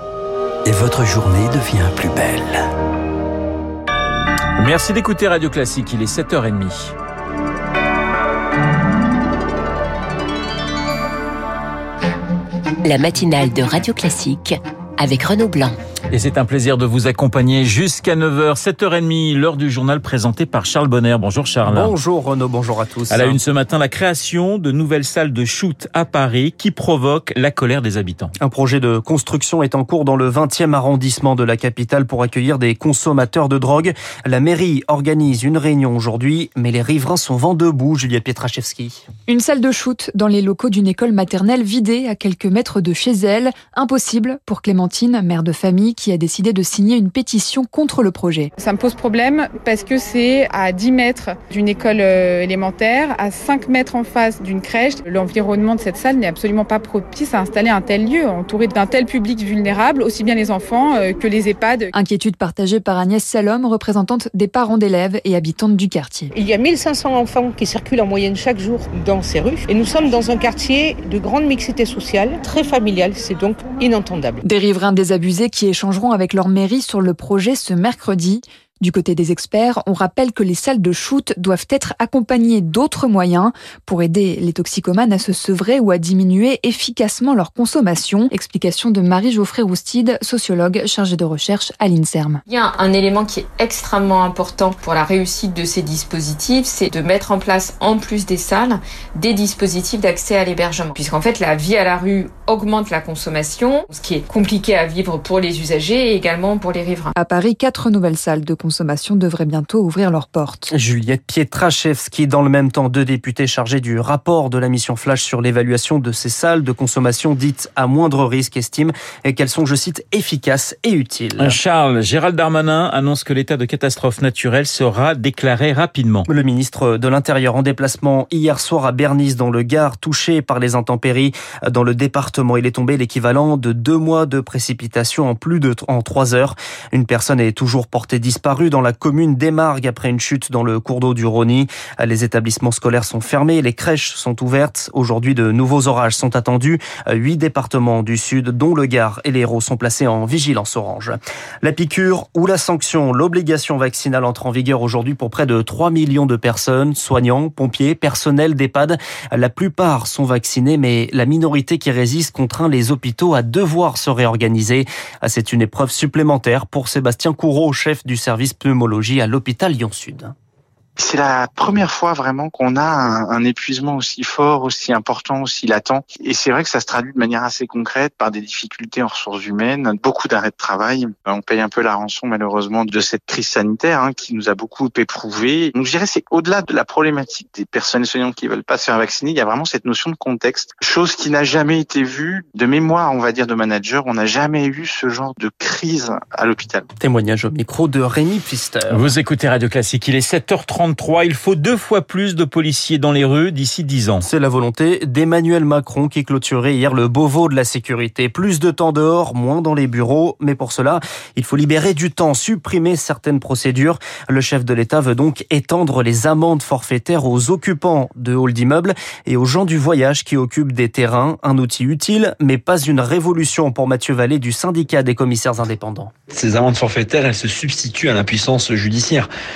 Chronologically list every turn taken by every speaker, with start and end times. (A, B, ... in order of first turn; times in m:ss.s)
0:00.6-0:02.6 A
0:04.6-0:06.9 B
0:12.8-0:15.8 C
0:16.1-0:21.9 B
0:21.7-0:23.4 D
0:23.1-0:28.3 B
0:28.4-0:39.0 D
0:39.3-0:48.5 E
0:48.6-1:01.8 F
1:01.9-1:06.3 E
1:06.3-1:14.4 G
1:14.4-1:32.4 E
1:32.5-1:47.1 H
1:47.2-1:50.7 E
1:50.7-2:01.6 D
2:01.4-2:06.2 B
2:06.3-2:50.3 D
2:51.0-3:16.8 I
3:17.0-3:19.0 D
3:18.9-3:24.2 B
3:24.2-3:46.1 D
3:46.3-3:49.3 J